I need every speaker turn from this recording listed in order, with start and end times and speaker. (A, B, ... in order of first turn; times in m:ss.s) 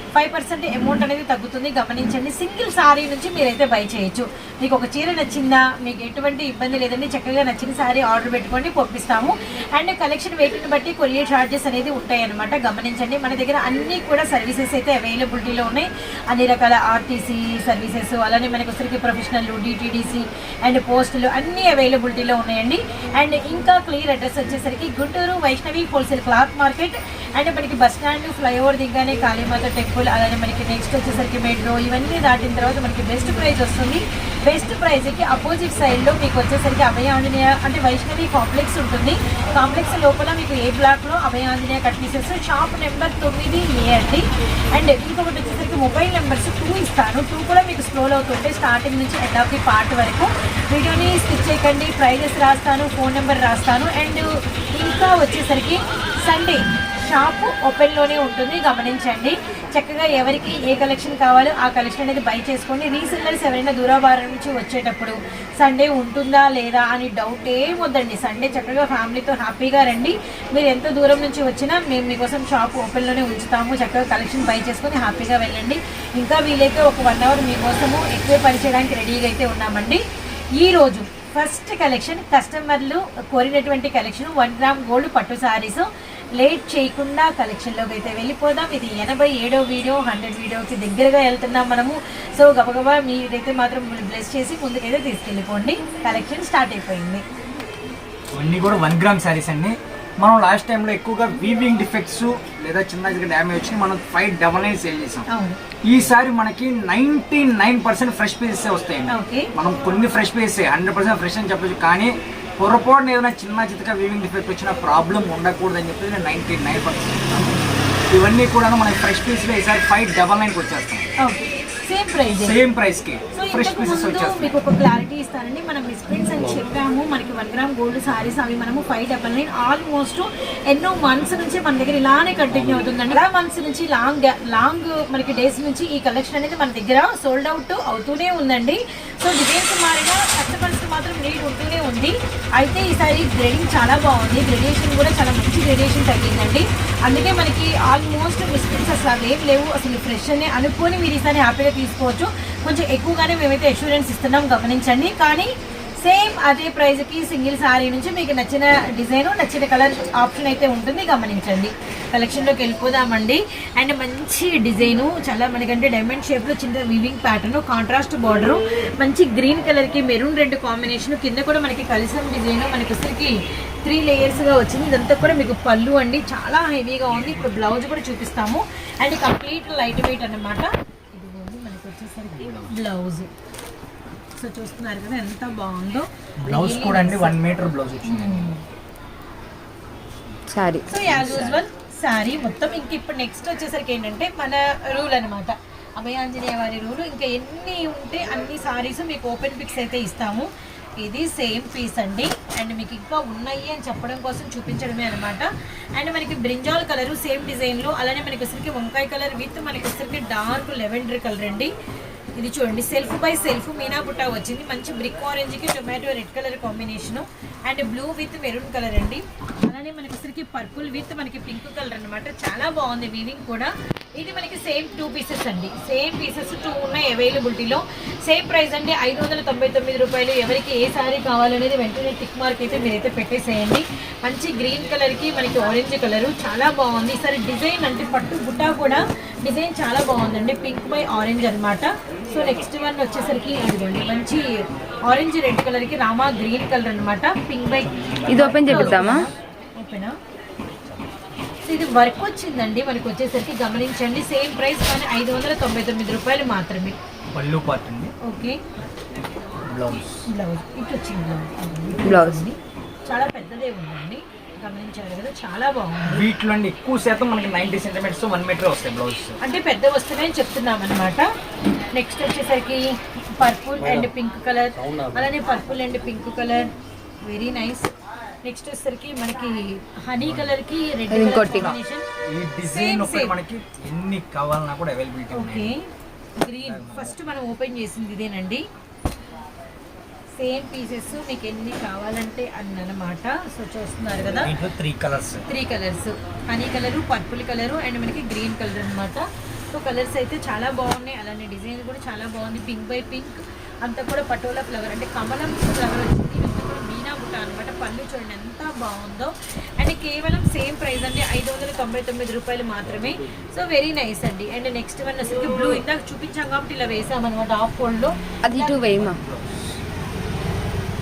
0:00.2-1:20.0 A
1:20.6-1:37.2 A
1:38.3-1:45.3 B
1:45.3-1:45.6 A
1:45.9-1:57.6 B
1:49.1-1:49.5 A
1:58.1-2:01.1 B
2:01.2-2:02.6 A
2:02.4-2:04.6 B
2:03.3-3:03.3 A
2:12.5-2:12.8 B
3:02.4-3:02.7 B
3:04.4-3:07.4 A
3:06.4-3:08.5 B
3:08.0-3:08.6 A
3:10.5-3:10.9 C
3:10.9-3:31.7 A
3:10.9-3:11.6 B
3:32.4-4:10.2 A
4:07.8-4:09.3 B
4:08.3-4:09.2 C
4:11.7-4:17.0 A
4:17.3-4:18.2 B
4:18.2-4:18.6 A
4:19.6-4:20.2 B
4:20.3-4:26.2 A
4:22.0-4:22.4 C
4:26.0-4:29.4 B
4:29.4-4:31.3 A
4:31.9-4:36.7 A
4:33.8-4:34.1 B
4:34.9-4:35.3 B
4:37.2-4:37.9 A
4:38.4-4:42.1 A
4:40.2-4:40.5 B
4:41.1-4:41.7 C
4:41.4-4:45.7 B
4:42.7-4:43.4 A
4:45.3-4:45.9 A
4:46.4-4:48.6 A
4:46.6-4:47.2 B
4:50.4-4:54.5 A
4:54.3-4:55.4 B
4:55.5-5:19.0 A
5:18.4-5:19.2 C
5:19.0-5:19.8 B